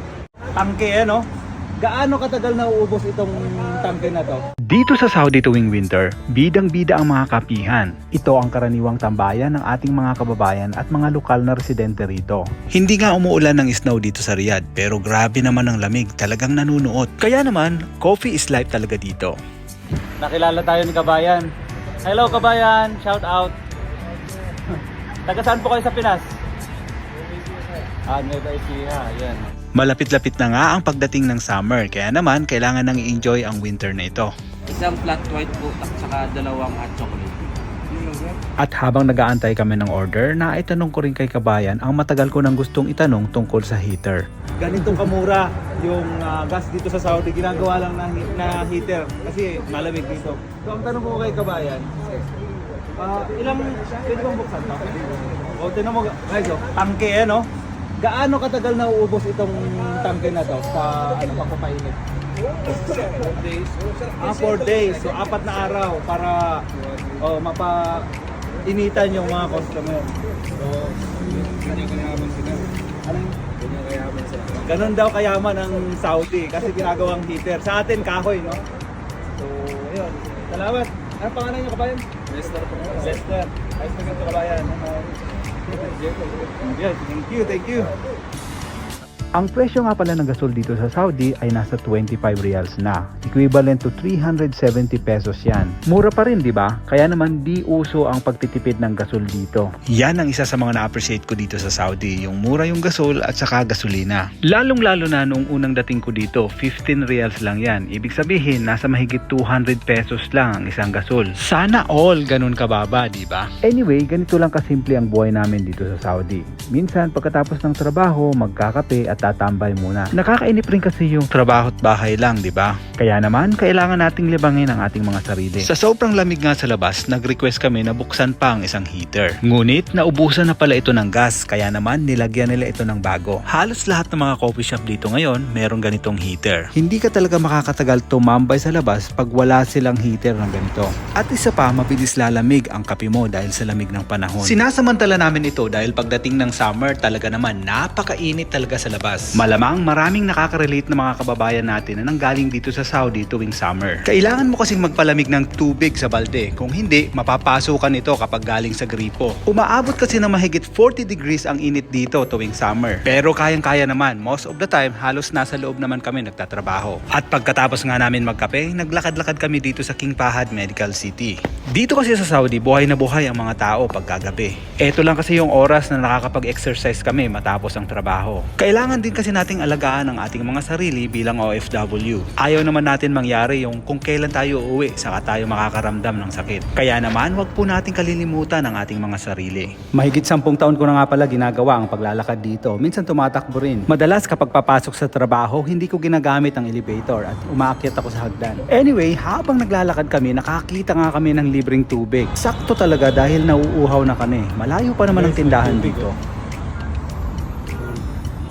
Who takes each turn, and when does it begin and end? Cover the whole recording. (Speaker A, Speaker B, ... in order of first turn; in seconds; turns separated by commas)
Speaker A: 0.6-1.2, Speaker A: 1.8-4.4, Speaker B: 4.7-19.4, Speaker A: 20.2-21.4, Speaker A: 22.0-23.5, Speaker A: 25.2-26.3, Speaker A: 28.1-29.4, Speaker B: 29.8-34.3, Speaker C: 34.7-37.4, Speaker B: 38.6-44.2, Speaker A: 44.6-51.9, Speaker A: 53.0-57.5, Speaker A: 58.0-62.0, Speaker C: 62.9-64.3, Speaker A: 64.2-66.6, Speaker A: 67.2-68.0, Speaker A: 68.7-78.6, Speaker C: 71.0-72.6, Speaker C: 73.6-74.6, Speaker A: 79.4-85.1, Speaker A: 85.7-87.9, Speaker B: 89.4-206.1, Speaker A: 205.1-206.1